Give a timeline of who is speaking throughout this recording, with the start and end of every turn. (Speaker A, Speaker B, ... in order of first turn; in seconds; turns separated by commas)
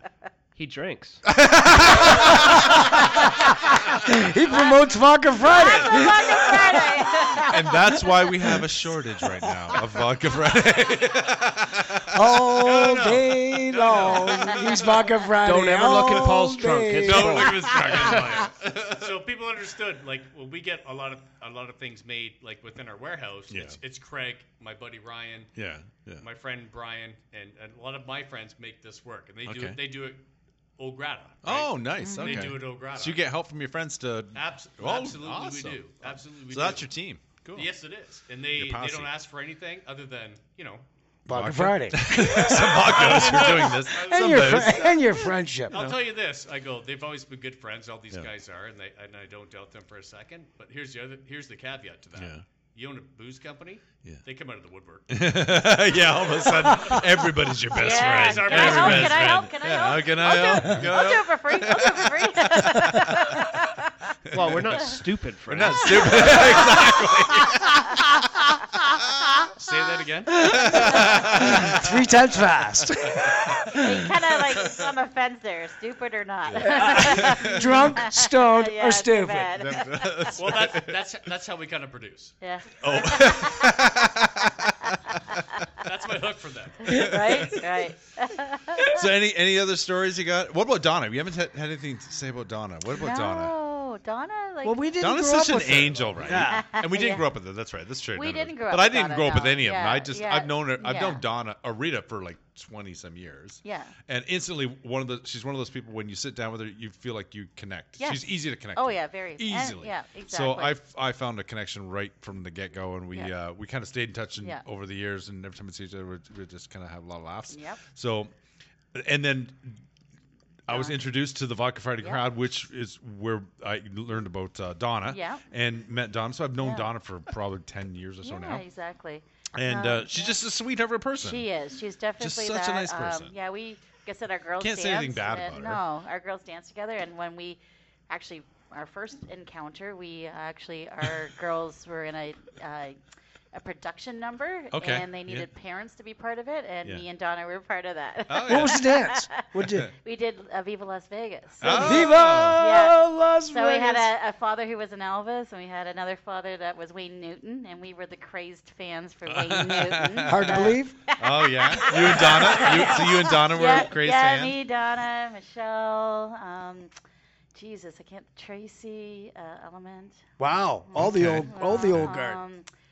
Speaker A: 0.6-1.2, Speaker B: 1.3-2.9, Speaker C: 1.9-8.6, Speaker D: 2.0-2.3, Speaker D: 4.5-7.6, Speaker B: 7.5-12.2, Speaker C: 9.4-9.8, Speaker C: 12.1-17.7, Speaker E: 12.6-15.0, Speaker A: 15.4-17.6, Speaker B: 17.0-19.1, Speaker E: 17.1-25.5, Speaker B: 23.5-23.8, Speaker B: 25.6-26.2, Speaker E: 26.2-30.2, Speaker B: 29.5-29.8, Speaker E: 30.8-33.2, Speaker B: 31.4-37.7, Speaker D: 32.0-32.5, Speaker E: 34.3-36.9, Speaker E: 37.5-40.8, Speaker B: 38.6-39.1, Speaker C: 41.3-45.8, Speaker B: 41.3-45.0, Speaker E: 42.2-55.1, Speaker B: 45.7-46.0, Speaker B: 52.2-52.4, Speaker B: 55.1-63.6, Speaker E: 56.6-57.0, Speaker E: 57.7-59.5, Speaker D: 57.7-63.9, Speaker B: 64.3-69.4, Speaker A: 64.3-66.6, Speaker D: 66.0-67.0, Speaker E: 69.5-71.0, Speaker B: 70.4-72.0, Speaker C: 70.4-74.1, Speaker D: 70.8-71.1, Speaker D: 73.7-80.3, Speaker B: 74.6-74.9, Speaker B: 76.5-77.8, Speaker C: 76.6-79.6, Speaker B: 79.6-81.0, Speaker E: 80.3-83.6, Speaker D: 82.4-83.9, Speaker B: 82.8-85.2, Speaker E: 85.8-87.1, Speaker D: 86.9-89.0, Speaker B: 86.9-87.7, Speaker B: 88.8-93.5, Speaker D: 92.9-94.9, Speaker C: 94.6-96.7, Speaker B: 95.0-118.3, Speaker D: 96.3-97.3, Speaker D: 98.2-101.2, Speaker D: 103.6-103.9, Speaker D: 108.0-110.8, Speaker D: 117.5-117.8, Speaker B: 118.9-119.8, Speaker B: 120.7-128.6, Speaker D: 120.7-121.0, Speaker D: 122.0-122.3, Speaker D: 125.1-125.4, Speaker D: 126.6-126.9, Speaker D: 128.2-130.4, Speaker B: 129.6-131.5, Speaker D: 131.2-143.0, Speaker B: 132.2-133.3, Speaker B: 134.6-135.8, Speaker D: 143.5-149.4, Speaker B: 144.7-145.5, Speaker B: 148.3-148.8, Speaker C: 148.5-149.9, Speaker D: 150.0-166.9, Speaker B: 151.6-152.6, Speaker C: 151.6-154.1, Speaker B: 159.3-164.6, Speaker C: 160.3-161.0, Speaker D: 167.5-170.2, Speaker C: 170.4-172.4, Speaker D: 170.9-172.7, Speaker B: 171.0-172.1